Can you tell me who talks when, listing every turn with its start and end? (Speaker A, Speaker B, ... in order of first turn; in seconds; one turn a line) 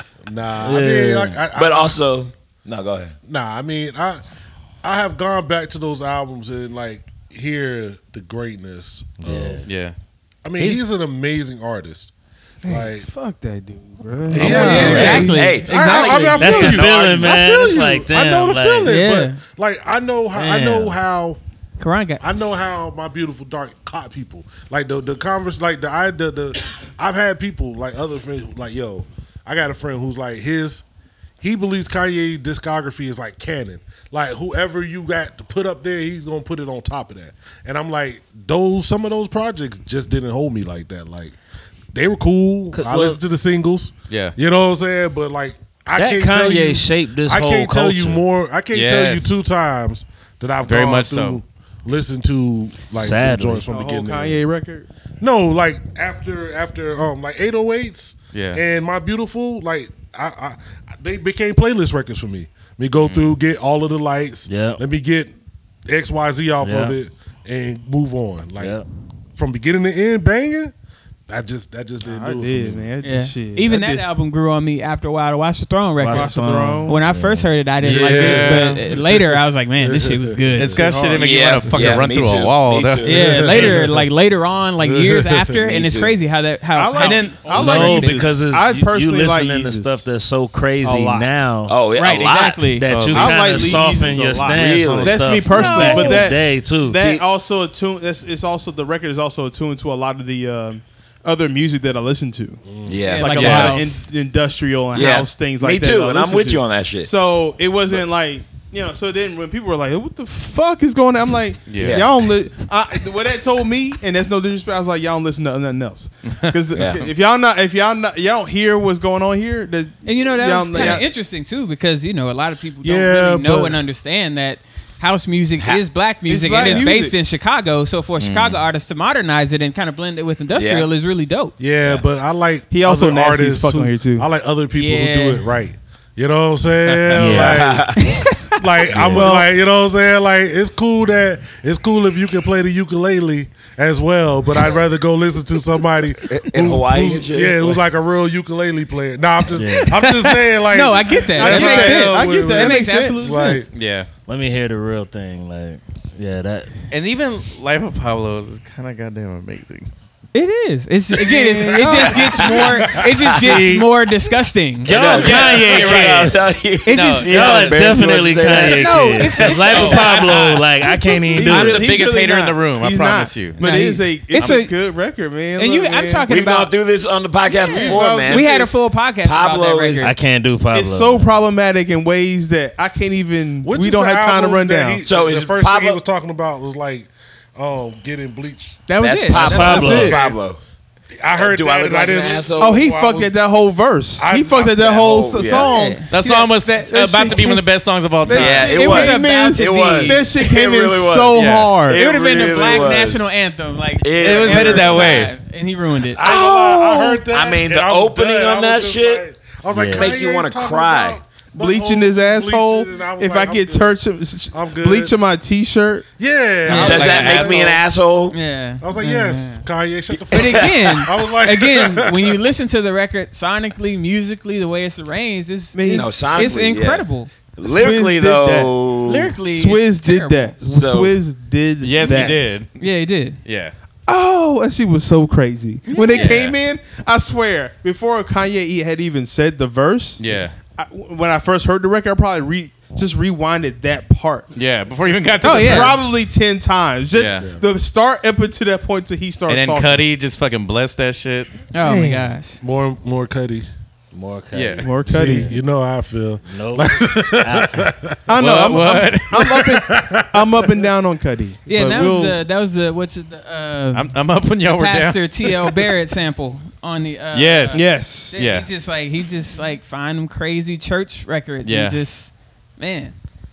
Speaker A: 0.3-2.0
Speaker B: 0.6-1.4
Speaker C: 1.5-3.1
Speaker A: 3.3-4.2
Speaker A: 4.8-9.6
Speaker B: 9.2-9.7
Speaker D: 9.7-9.9
Speaker A: 10.4-12.1
Speaker E: 12.6-15.5
Speaker A: 12.6-13.1
Speaker A: 14.3-21.4
Speaker F: 14.4-16.8
Speaker B: 14.4-14.9
Speaker C: 14.6-17.3
Speaker B: 16.4-19.0
Speaker F: 18.8-19.4
Speaker B: 20.3-20.9
Speaker F: 21.8-22.5
Speaker A: 22.2-30.8
Speaker A: 31.4-41.4
Speaker A: 41.9-54.4
Speaker B: 42.7-43.2
Speaker D: 44.1-44.3
Speaker B: 46.0-48.2
Speaker D: 48.7-49.4
Speaker D: 50.6-51.4
Speaker B: 52.9-53.6
Speaker E: 53.7-54.9
Speaker A: 55.2-65.3
Speaker D: 58.3-58.6
Speaker D: 63.0-63.4
Speaker B: 64.5-64.8
Speaker A: 65.9-68.8
Speaker B: 66.6-67.0
Speaker B: 68.6-68.8
Speaker A: 69.3-70.7
Speaker A: 71.3-72.9
Speaker E: 72.0-74.1
Speaker F: 73.0-80.8
Speaker B: 76.0-77.5
Speaker E: 76.1-77.0
Speaker D: 77.8-78.8
Speaker E: 78.1-78.8
Speaker A: 78.9-79.2
Speaker A: 79.8-80.8
Speaker D: 80.6-83.1
Speaker E: 80.7-81.3
Speaker C: 81.2-83.6
Speaker F: 83.0-88.2
Speaker A: 83.1-84.1
Speaker A: 84.8-85.6
Speaker C: 85.6-86.1
Speaker E: 86.8-90.1
Speaker D: 87.0-88.2
Speaker B: 87.5-91.8
Speaker E: 90.8-91.5
Speaker C: 91.7-92.8
Speaker F: 92.0-92.8
Speaker B: 92.7-97.0
Speaker D: 92.9-93.9
Speaker E: 93.1-102.6
Speaker C: 94.3-95.8
Speaker F: 95.5-96.2
Speaker C: 96.9-97.2
Speaker A: 102.6-103.0
Speaker C: 102.8-103.7
Speaker F: 103.1-104.0
Speaker E: 103.2-121.0
Speaker D: 103.3-103.8
Speaker C: 104.9-107.1
Speaker D: 111.7-112.0
Speaker C: 111.8-112.1
Speaker D: 116.3-117.0
Speaker C: 116.7-117.1
Speaker F: 120.0-131.5
Speaker A: 122.8-123.8
Speaker E: 126.2-127.2
Speaker D: 128.2-128.6
Speaker C: 130.5-130.9
Speaker A: 131.6-137.9
Speaker E: 132.7-134.3
Speaker F: 134.8-135.4
Speaker D: 136.8-137.3
Speaker B: 137.1-137.6
Speaker C: 137.3-138.1
Speaker F: 138.0-138.3
Speaker A: 138.6-153.7
Speaker B: 138.9-139.3
Speaker E: 139.1-139.5
Speaker C: 146.2-147.8
Speaker B: 149.5-150.0
Speaker F: 149.7-153.6
Speaker E: 151.3-153.6
Speaker D: 153.7-154.1
Speaker B: 154.3-156.7
Speaker D: 156.9-159.9
Speaker F: 160.3-165.2
Speaker E: 161.3-162.6
Speaker C: 162.1-162.7
Speaker A: 162.4-163.1
Speaker B: 163.4-163.9
Speaker C: 164.8-170.1
Speaker D: 164.9-166.3
Speaker B: 164.9-166.6
Speaker F: 166.8-167.3
Speaker D: 166.9-167.9
Speaker B: 167.2-172.0
Speaker F: 168.5-170.6
Speaker D: 169.6-170.1
Speaker E: 171.3-176.3
Speaker D: 171.4-173.6
Speaker F: 173.6-174.7
Speaker F: 175.6-176.7
Speaker C: 176.3-180.2
Speaker F: 177.6-180.1
Speaker E: 177.7-178.7
Speaker B: 180.0-181.3
Speaker E: 180.7-185.0
Speaker A: 183.6-188.8
Speaker C: 185.0-186.0
Speaker F: 188.9-190.1
Speaker C: 189.0-190.6
Speaker B: 189.3-190.1
Speaker A: 189.4-190.4
Speaker E: 189.6-190.2
Speaker A: 191.2-193.4
Speaker C: 191.3-192.8
Speaker E: 192.6-197.6
Speaker A: 194.2-195.5
Speaker C: 194.8-195.7
Speaker F: 195.6-196.1
Speaker D: 196.1-198.8
Speaker E: 198.2-202.0
Speaker C: 198.3-203.3
Speaker F: 198.7-200.3
Speaker D: 201.3-201.7
Speaker F: 201.9-206.2
Speaker C: 204.0-205.2
Speaker D: 204.2-205.3
Speaker A: 206.1-214.0
Speaker C: 206.2-209.2
Speaker B: 209.7-210.1
Speaker C: 209.9-211.2
Speaker E: 211.5-216.1
Speaker A: 214.5-215.1
Speaker A: 216.2-217.8
Speaker F: 216.7-217.6
Speaker C: 216.7-218.3
Speaker D: 216.8-217.4
Speaker F: 218.3-219.6
Speaker A: 218.8-222.3
Speaker F: 220.3-227.3
Speaker C: 220.3-220.7
Speaker E: 225.7-226.6
Speaker C: 225.9-229.3
Speaker E: 227.6-228.7
Speaker F: 229.0-230.6
Speaker E: 229.5-232.5
Speaker C: 230.7-231.1
Speaker D: 231.8-232.7
Speaker F: 232.0-233.4
Speaker D: 233.4-233.7
Speaker E: 234.1-244.6
Speaker F: 235.9-236.4
Speaker D: 236.1-236.6
Speaker D: 240.2-240.5
Speaker D: 244.6-246.0
Speaker E: 245.4-250.1
Speaker F: 245.4-245.9
Speaker D: 247.1-247.4
Speaker D: 249.5-251.5
Speaker F: 251.7-252.6
Speaker E: 251.8-252.3
Speaker A: 252.6-253.7
Speaker B: 254.1-255.5
Speaker D: 254.5-254.8
Speaker E: 254.8-255.5
Speaker A: 255.1-258.2
Speaker B: 256.4-257.9
Speaker E: 258.3-262.4
Speaker D: 258.4-259.6
Speaker A: 259.4-260.7
Speaker F: 261.7-264.1
Speaker D: 263.9-265.7
Speaker F: 264.7-273.1
Speaker D: 267.3-268.7
Speaker E: 267.7-268.4
Speaker D: 271.6-272.0